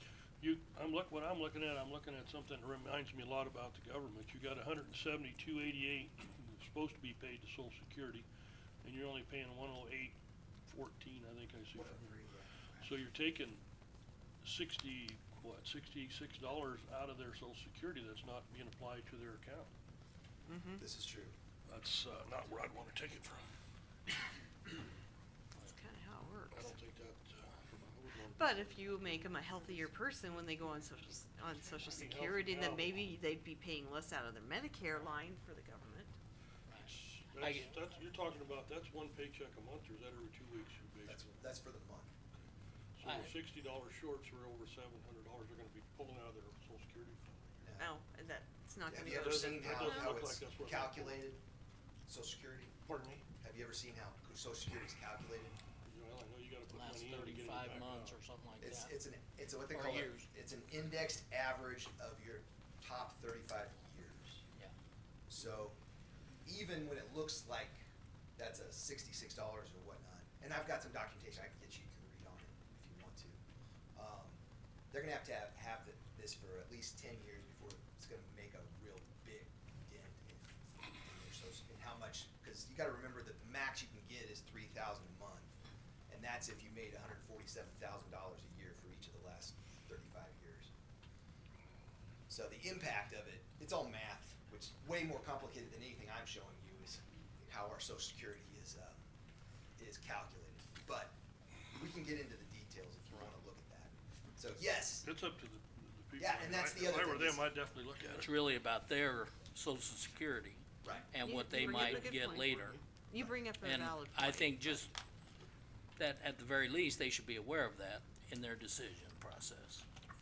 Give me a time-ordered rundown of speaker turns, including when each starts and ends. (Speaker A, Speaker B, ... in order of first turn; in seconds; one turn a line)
Speaker A: 0.4-8.3
Speaker A: 8.8-12.2
Speaker B: 11.7-13.1
Speaker A: 12.8-13.6
Speaker A: 14.4-19.7
Speaker C: 20.5-20.8
Speaker B: 20.8-21.3
Speaker A: 21.7-23.5
Speaker C: 25.6-26.8
Speaker A: 26.5-29.7
Speaker C: 28.4-36.1
Speaker A: 31.8-33.1
Speaker D: 36.7-37.8
Speaker A: 36.8-41.2
Speaker B: 41.1-42.1
Speaker A: 43.0-47.6
Speaker D: 43.0-43.4
Speaker B: 47.6-47.9
Speaker C: 47.8-50.1
Speaker B: 48.9-51.4
Speaker A: 49.0-51.3
Speaker B: 52.1-52.8
Speaker A: 52.9-53.3
Speaker B: 53.3-55.6
Speaker A: 55.8-58.2
Speaker D: 56.7-59.0
Speaker B: 58.6-64.4
Speaker D: 59.7-60.3
Speaker B: 65.3-65.8
Speaker B: 66.5-67.8
Speaker B: 68.4-73.4
Speaker B: 74.0-74.4
Speaker B: 74.9-85.5
Speaker B: 86.1-90.7
Speaker B: 92.3-99.0
Speaker B: 99.8-101.2
Speaker B: 101.7-105.1
Speaker A: 105.0-108.3
Speaker B: 106.2-107.5
Speaker D: 108.1-112.8
Speaker B: 110.8-111.1
Speaker C: 111.2-114.9
Speaker A: 111.6-112.8
Speaker D: 113.6-114.9
Speaker D: 116.0-119.8